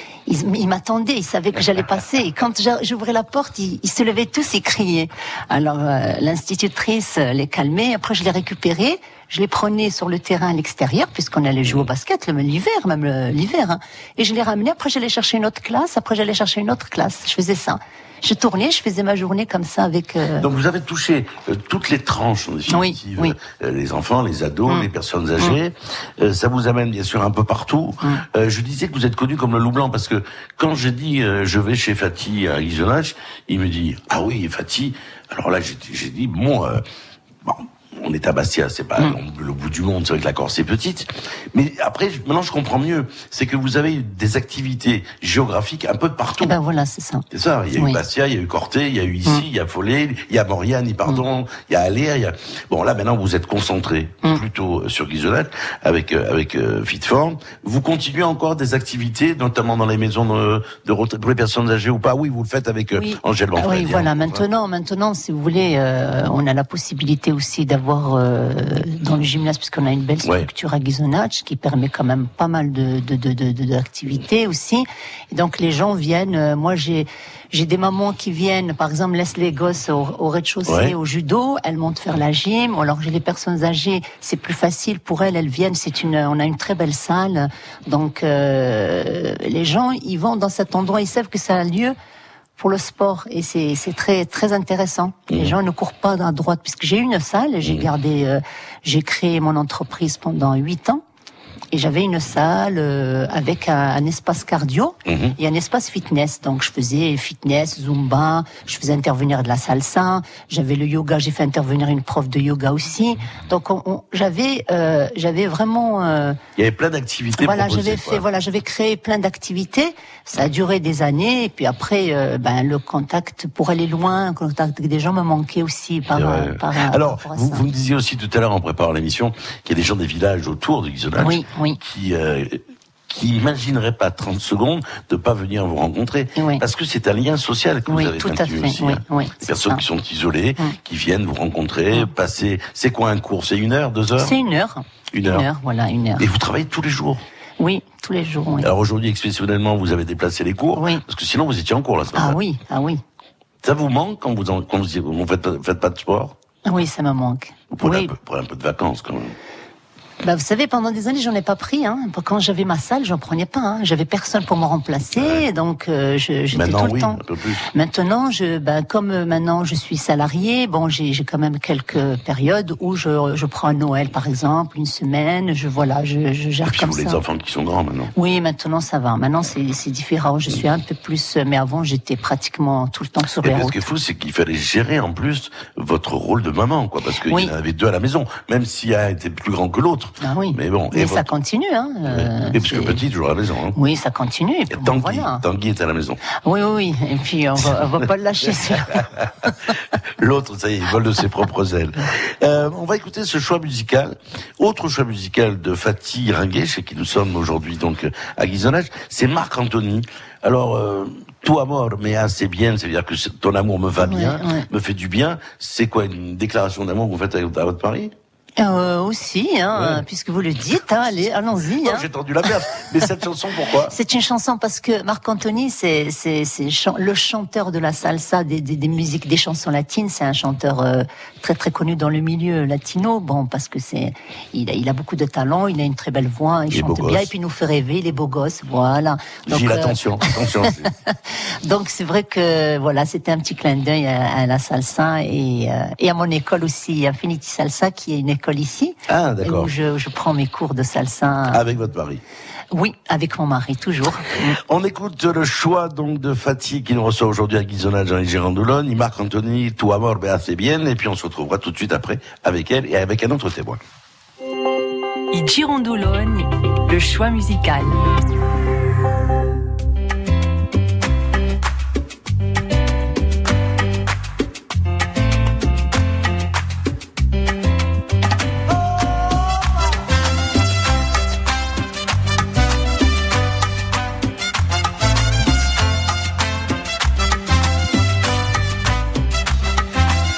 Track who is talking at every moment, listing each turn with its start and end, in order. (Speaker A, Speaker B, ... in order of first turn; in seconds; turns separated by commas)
Speaker A: 0.3-20.5, Speaker B: 20.4-36.8, Speaker A: 22.7-23.4, Speaker B: 37.4-46.6, Speaker A: 46.4-47.2, Speaker B: 47.3-64.4, Speaker A: 62.9-91.9, Speaker B: 70.2-70.5, Speaker B: 80.7-80.9, Speaker A: 92.6-101.0, Speaker B: 95.3-95.5, Speaker A: 101.7-116.4, Speaker B: 105.0-105.4, Speaker B: 116.5-118.2, Speaker A: 117.4-127.6, Speaker B: 126.1-144.3, Speaker A: 131.2-131.8, Speaker A: 136.3-136.6, Speaker A: 137.9-139.8, Speaker A: 144.2-146.2, Speaker B: 145.1-145.4, Speaker B: 146.2-147.2, Speaker A: 147.6-148.7, Speaker B: 148.6-152.4, Speaker A: 150.8-151.0, Speaker A: 152.1-153.0, Speaker B: 153.6-156.3, Speaker A: 156.7-158.1, Speaker B: 157.7-159.3, Speaker A: 160.2-167.2, Speaker B: 165.2-165.4, Speaker B: 166.5-167.7, Speaker A: 167.7-177.2, Speaker B: 176.6-178.1, Speaker A: 178.2-183.8, Speaker B: 183.4-191.3, Speaker A: 190.2-193.0, Speaker B: 192.1-193.8, Speaker A: 193.7-195.4, Speaker B: 194.7-196.2, Speaker A: 196.4-199.0, Speaker B: 197.6-198.0, Speaker B: 198.8-199.3, Speaker B: 200.2-218.1, Speaker A: 214.0-214.7, Speaker A: 218.6-222.1, Speaker B: 219.8-220.0, Speaker B: 221.8-223.9, Speaker A: 223.9-251.6, Speaker B: 236.7-237.3, Speaker B: 239.5-240.9, Speaker B: 249.1-249.7, Speaker B: 251.5-252.2, Speaker A: 252.7-254.6, Speaker B: 254.6-263.8, Speaker C: 265.3-268.1